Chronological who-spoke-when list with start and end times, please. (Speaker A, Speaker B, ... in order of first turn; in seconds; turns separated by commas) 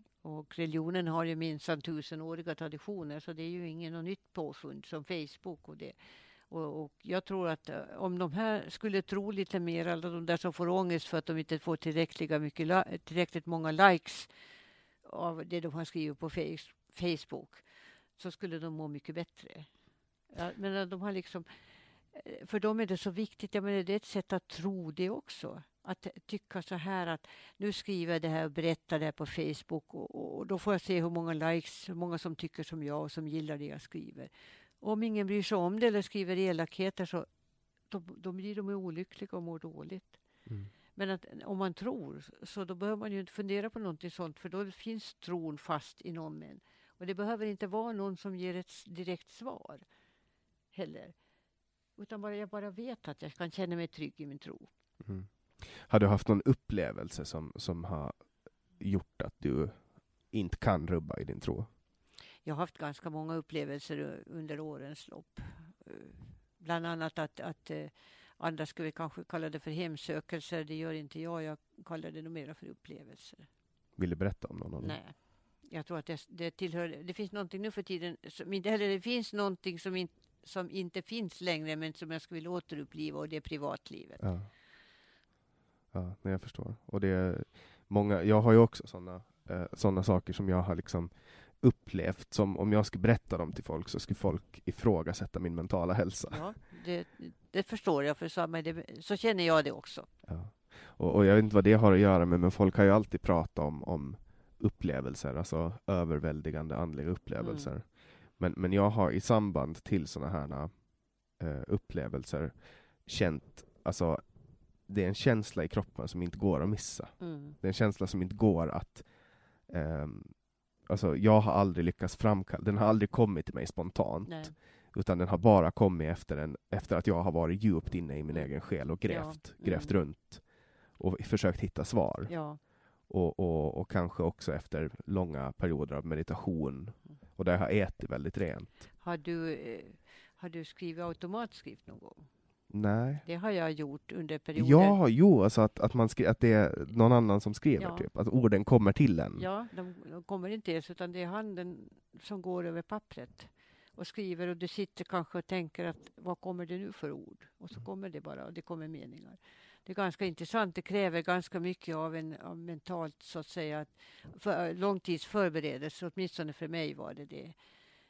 Speaker A: 0.2-5.9, Speaker A: 6.5-14.3, Speaker A: 15.0-17.6, Speaker A: 18.1-19.7, Speaker A: 20.3-21.5, Speaker A: 22.1-37.3, Speaker A: 37.9-40.2, Speaker B: 40.5-40.7, Speaker A: 41.0-49.8, Speaker A: 50.7-51.1, Speaker A: 52.0-54.7, Speaker B: 55.0-61.7, Speaker A: 62.4-73.5, Speaker B: 74.0-75.0, Speaker A: 74.8-84.2, Speaker B: 84.2-84.5, Speaker B: 85.9-96.5, Speaker A: 96.3-100.1, Speaker B: 100.2-138.9, Speaker A: 107.4-107.7, Speaker A: 117.2-117.6, Speaker A: 124.2-124.5, Speaker A: 128.3-130.0, Speaker A: 132.2-132.6, Speaker A: 139.0-142.3, Speaker B: 142.7-143.2, Speaker A: 143.2-145.0, Speaker B: 144.5-149.5, Speaker A: 147.8-148.1, Speaker A: 149.3-167.6